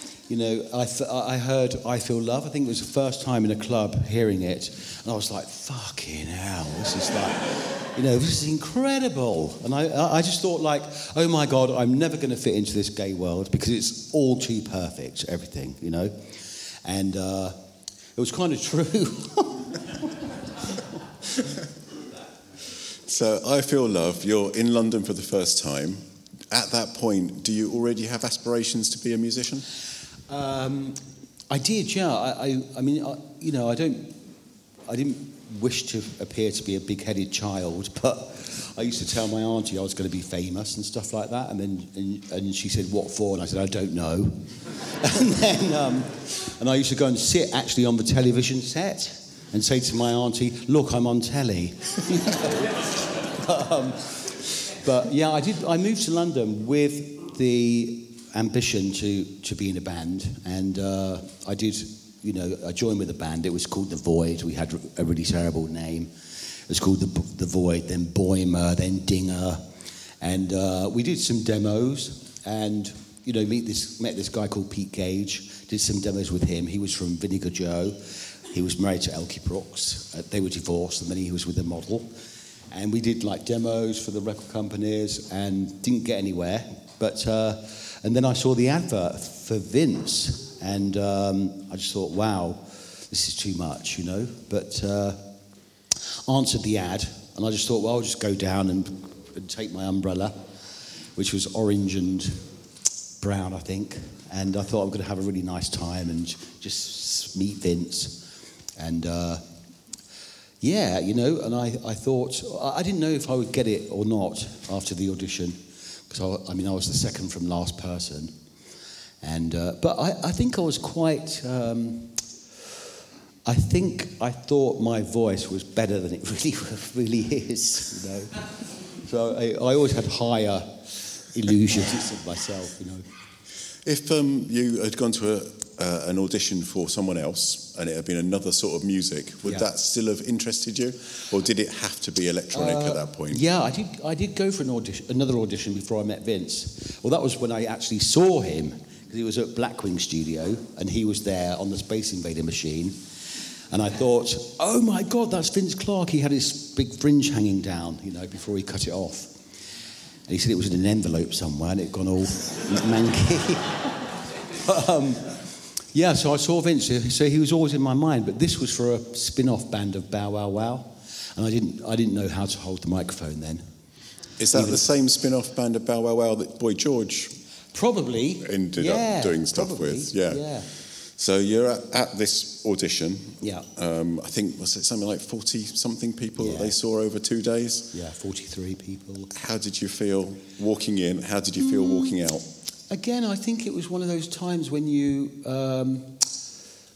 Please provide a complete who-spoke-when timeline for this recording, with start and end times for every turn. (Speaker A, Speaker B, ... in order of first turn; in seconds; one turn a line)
Speaker A: 0.3-17.6
Speaker A: 18.1-20.1
Speaker B: 22.9-29.6
Speaker A: 30.3-34.2
Speaker A: 34.9-66.1
Speaker A: 66.7-69.6
Speaker A: 70.2-78.0
Speaker A: 78.5-82.1
Speaker A: 82.7-95.2
Speaker A: 96.3-100.3
Speaker A: 101.2-102.4
Speaker A: 103.2-108.2
Speaker A: 108.8-109.4
Speaker A: 110.6-118.3
Speaker A: 119.2-122.2
Speaker A: 123.4-133.1
Speaker B: 133.8-143.4
Speaker A: 142.5-153.0
Speaker A: 153.7-159.4
Speaker A: 160.3-163.9
Speaker A: 164.5-165.4
Speaker A: 165.9-173.7
Speaker B: 174.4-177.4
Speaker A: 174.5-174.8
Speaker A: 177.7-180.7
Speaker B: 178.4-187.9
Speaker A: 183.4-183.7
Speaker A: 186.4-186.7
Speaker A: 187.9-189.3
Speaker B: 189.3-192.5
Speaker A: 192.9-196.2